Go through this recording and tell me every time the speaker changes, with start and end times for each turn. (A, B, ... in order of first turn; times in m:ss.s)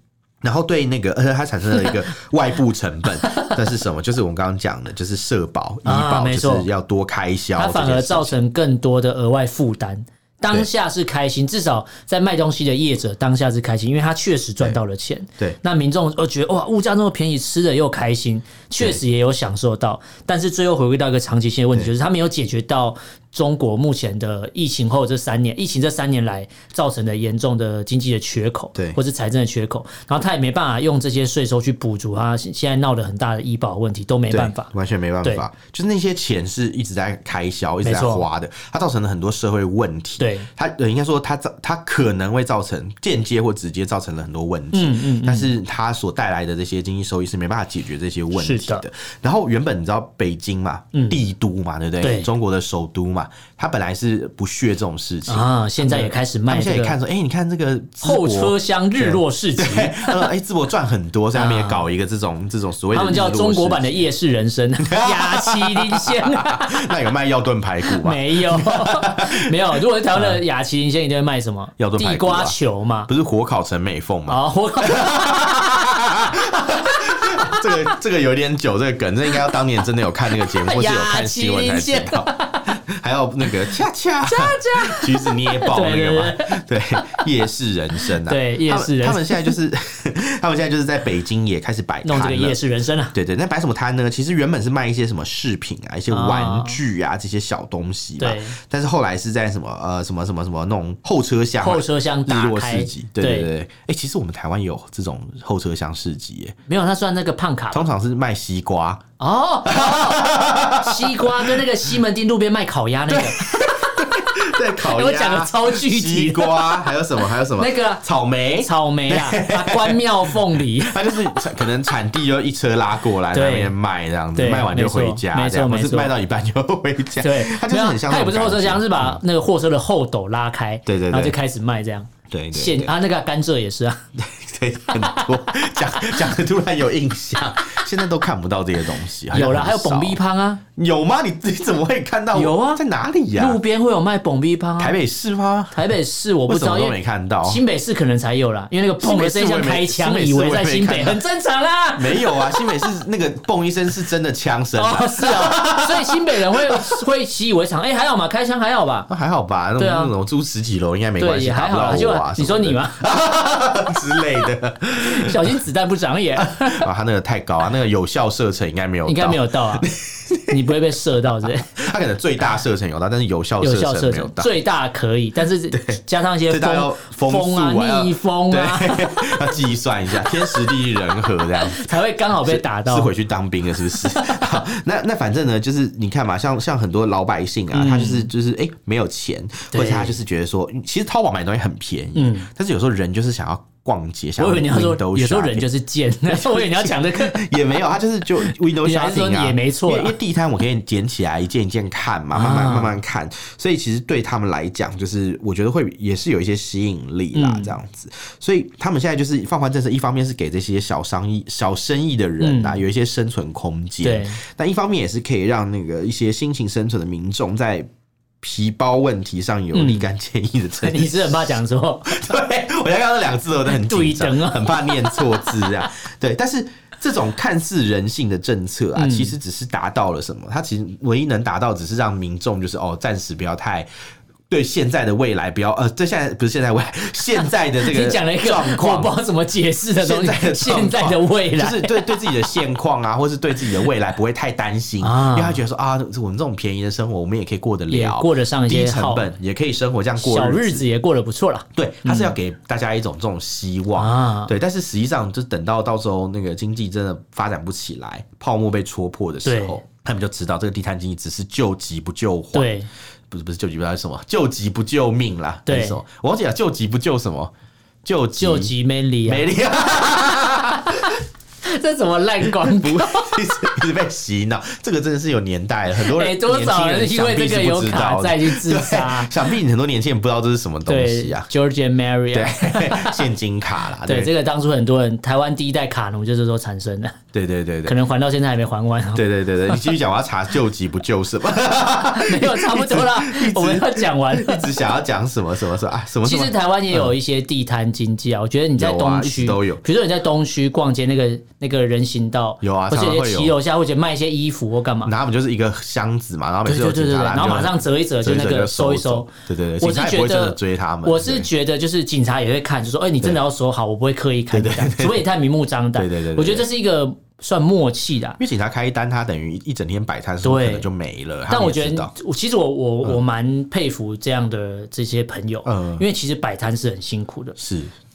0:00.4-0:08.4 A
0:03.2-0:03.6 B
0:05.8-0:06.7 B
0:07.6-0:34.7 B
0:34.3-1:04.1 A
0:37.8-0:38.3 B
0:40.2-0:40.5 B
0:44.7-0:45.5 B
0:48.4-0:48.8 B
0:50.9-0:51.2 B
0:52.0-0:52.3 B
0:55.3-0:57.0 B
0:58.0-1:00.3 B
1:01.3-1:01.8 B
1:02.9-1:06.9 B
1:04.8-1:09.5 A
1:07.9-1:13.1 B
1:10.1-1:10.4 A
1:11.8-1:12.6 A
1:13.1-1:32.6 A
1:14.3-1:15.6 B
1:16.9-1:17.9 B
1:20.4-1:22.7 B
1:24.3-1:27.2 B
1:28.1-1:29.6 B
1:32.0-1:33.2 B
1:33.1-1:46.6 A
1:36.1-1:36.8 B
1:38.2-1:38.6 B
1:41.6-1:43.5 B
1:46.7-1:47.9 B
1:47.7-1:49.0 A
1:49.2-1:58.0 B
1:49.6-1:51.7 A
1:53.1-2:09.2 A
1:58.6-2:01.4 B
2:03.3-2:03.7 B
2:04.4-2:06.2 B
2:07.2-2:14.0 B
2:10.9-2:11.4 A
2:12.3-2:12.9 A
2:14.2-2:20.2 A
2:14.9-2:16.3 B
2:19.3-2:20.6 B
2:20.8-2:23.6 A
2:22.3-2:25.0 B
2:24.8-2:25.9 A
2:25.7-2:32.9 B
2:26.5-2:27.6 A
2:29.0-2:31.2 A
2:32.0-2:37.0 A
2:34.8-2:39.1 B
2:39.1-2:45.6 A
2:39.8-2:40.1 B
2:41.2-2:43.1 B
2:45.0-2:46.9 B
2:46.4-2:50.7 A
2:49.1-2:49.9 B
2:50.5-2:51.7 B
2:51.5-2:54.6 A
2:53.6-3:03.1 B
2:55.7-3:15.7 A
3:03.8-3:04.6 B
3:07.7-3:08.3 B
3:09.7-3:10.2 B
3:12.2-3:12.5 B
3:14.4-3:17.8 B
3:16.3-3:37.9 A
3:18.4-3:20.2 B
3:22.3-3:23.0 B
3:27.3-3:27.8 B
3:32.4-3:32.8 B
3:34.0-3:34.4 B
3:38.4-3:53.9 A
3:39.7-3:40.1 B
3:40.8-3:42.3 B
3:43.6-3:45.7 B
3:49.0-3:49.4 B
3:54.5-3:59.1 A
3:57.4-4:02.5 B
4:00.0-4:10.8 A
4:05.0-4:05.6 B
4:07.9-4:09.3 B
4:10.2-4:12.4 B
4:11.7-4:22.7 A
4:14.0-4:14.5 B
4:19.4-4:19.8 B
4:22.5-4:22.9 B
4:23.3-4:27.5 A
4:25.7-4:26.0 B
4:28.0-4:28.7 A
4:28.4-4:29.5 B
4:29.3-4:31.2 A
4:31.6-4:33.8 B
4:32.4-4:41.5 A
4:36.0-4:39.5 B
4:40.9-4:43.3 B
4:42.3-4:44.3 A
4:44.0-4:47.2 B
4:47.3-4:48.0 A
4:47.9-4:50.0 B
4:49.2-4:57.1 A
4:52.1-4:54.9 B
4:56.2-5:05.1 B
4:58.8-4:59.8 A
5:02.6-5:03.6 A
5:05.0-5:11.5 A
5:06.6-5:18.4 B
5:14.5-5:15.2 A
5:16.0-5:16.7 A
5:18.4-5:22.1 A
5:20.4-5:20.9 B
5:21.5-5:27.6 B
5:25.6-5:26.0 A
5:27.6-5:27.9 A